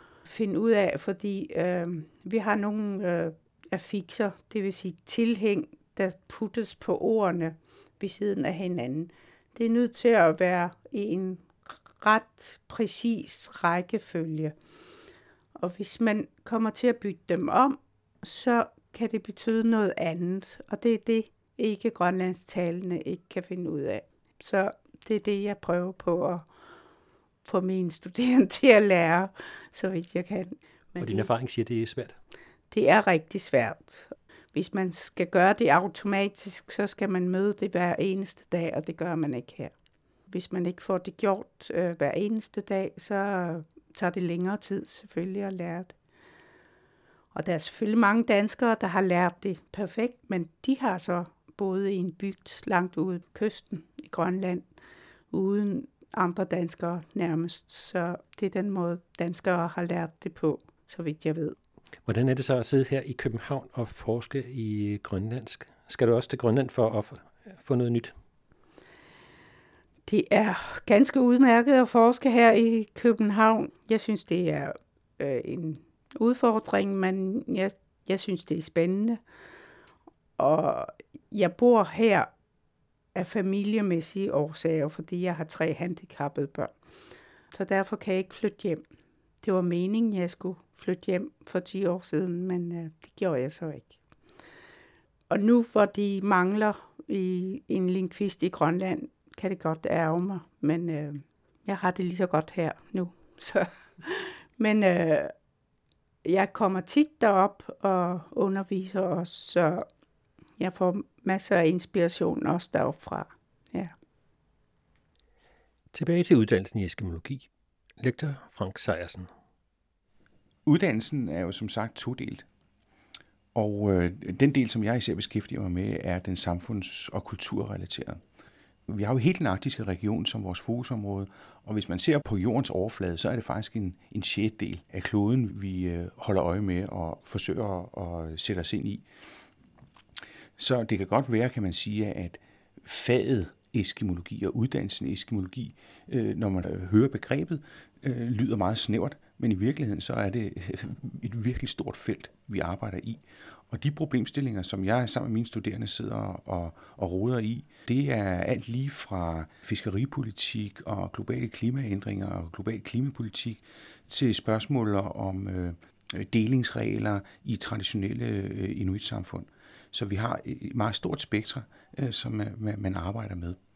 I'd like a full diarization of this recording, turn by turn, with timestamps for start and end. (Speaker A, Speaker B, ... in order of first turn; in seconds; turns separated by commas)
Speaker A: 0.3-14.5, Speaker A: 15.6-26.5, Speaker A: 27.4-31.3, Speaker B: 31.0-32.2, Speaker A: 32.7-39.7, Speaker A: 40.3-45.9, Speaker A: 47.3-54.7, Speaker A: 55.3-61.6, Speaker B: 62.1-68.1, Speaker A: 70.1-79.2, Speaker A: 80.4-82.3, Speaker A: 83.2-86.7, Speaker A: 87.5-88.8, Speaker A: 89.4-94.0, Speaker A: 95.3-105.3, Speaker A: 106.2-109.9, Speaker A: 110.6-113.9, Speaker B: 115.9-117.5, Speaker B: 118.0-119.3, Speaker C: 120.7-122.5, Speaker C: 123.5-128.2, Speaker C: 128.9-139.1, Speaker C: 140.6-173.6